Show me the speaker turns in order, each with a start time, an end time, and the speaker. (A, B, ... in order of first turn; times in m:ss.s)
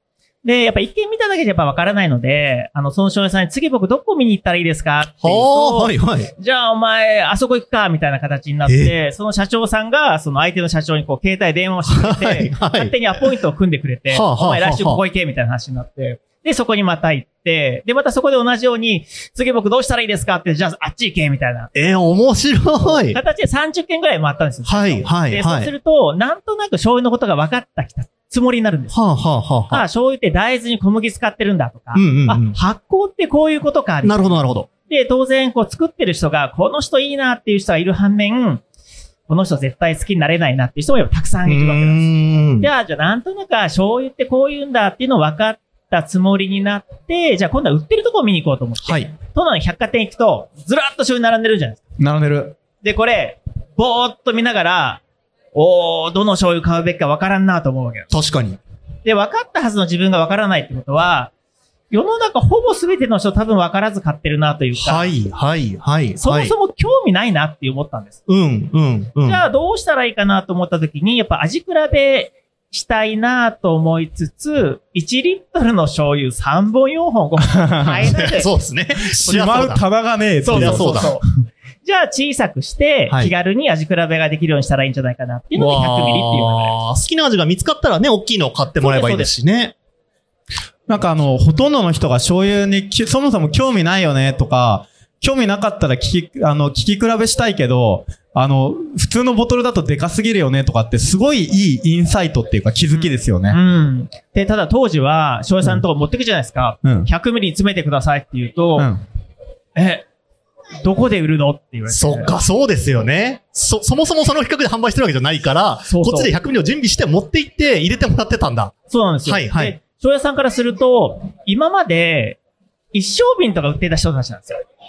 0:00.4-0:21.7 A
0:05.2-0:06.3 B
0:08.7-0:08.9 B
0:11.9-0:13.3 B
0:14.1-0:15.0 B
0:21.8-0:23.2 B
0:22.8-0:29.0 A
0:24.7-0:25.7 B
0:28.9-0:29.8 B
0:29.7-0:34.4 A
0:31.9-0:32.6 B
0:34.0-0:34.7 B
0:34.9-0:38.6 A
0:39.3-0:42.1 A
0:41.5-0:42.7 B
0:42.6-0:51.8 A
0:48.8-0:49.1 B
0:52.0-0:52.6 C
0:52.8-0:55.0 A
0:55.5-0:58.1 A
0:58.1-0:58.6 B
0:59.0-1:01.3 A
1:01.9-1:05.1 A
1:04.8-1:06.5 B
1:06.2-1:08.2 A
1:08.3-1:09.4 B
1:09.2-1:18.5 A
1:17.4-1:18.1 C
1:18.0-1:19.8 B
1:19.1-1:21.2 C
1:20.4-1:21.2 A
1:20.5-1:21.2 B
1:21.8-1:26.7 A
1:25.6-1:29.7 B
1:28.8-1:29.3 A
1:30.9-1:43.6 C
1:42.9-1:48.9 A
1:46.8-1:47.1 C
1:48.8-1:49.0 C
1:49.8-1:50.0 A
1:50.8-1:52.3 A
1:51.9-1:59.8 B
1:55.9-1:56.3 A
1:58.9-2:02.4 A
2:02.9-2:04.6 A